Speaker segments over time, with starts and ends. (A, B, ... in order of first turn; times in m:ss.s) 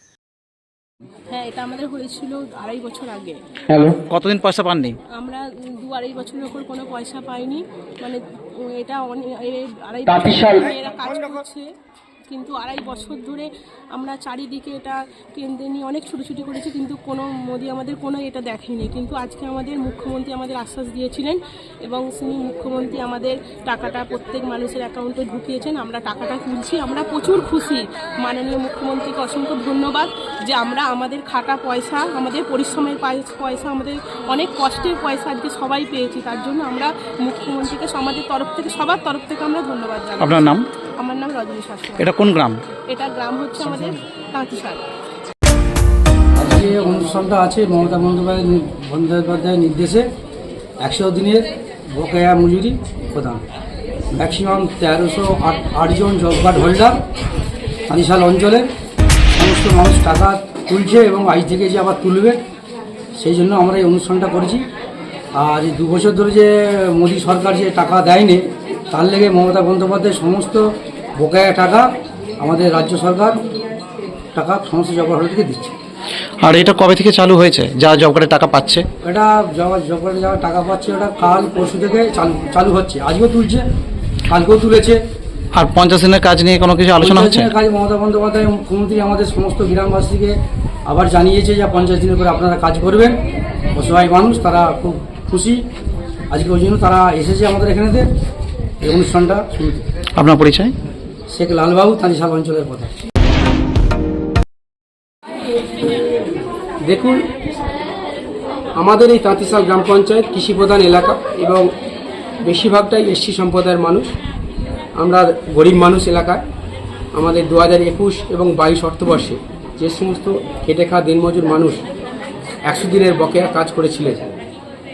0:01.3-0:03.4 A
0:03.8-0:05.0 B
0:05.1-0:08.2 A
0:08.8-0:11.6 A
0:12.3-0:42.1 A
0:40.2-0:40.7 B
0:42.0-0:42.6 B
0:42.9-0:44.8 A
0:46.4-0:50.1 C
0:50.8-0:53.4 C
0:54.1-0:57.0 C
0:57.9-0:58.7 C
0:59.3-1:02.4 C
1:03.2-1:04.6 C
1:05.4-1:13.4 C
1:14.3-1:15.7 C
1:16.4-1:18.8 B
1:19.0-1:23.6 C
1:24.3-1:25.0 C
1:25.6-1:27.5 B
1:27.0-1:33.2 C
1:33.7-1:35.6 C
1:36.3-1:38.1 C
1:38.8-1:39.8 C
1:40.2-1:40.7 B
1:41.3-1:42.9 C
1:46.8-1:47.2 D
1:48.8-1:51.7 D
1:52.4-1:54.1 D
1:55.0-1:56.4 D
1:57.1-2:01.8 D
2:02.7-2:04.2 D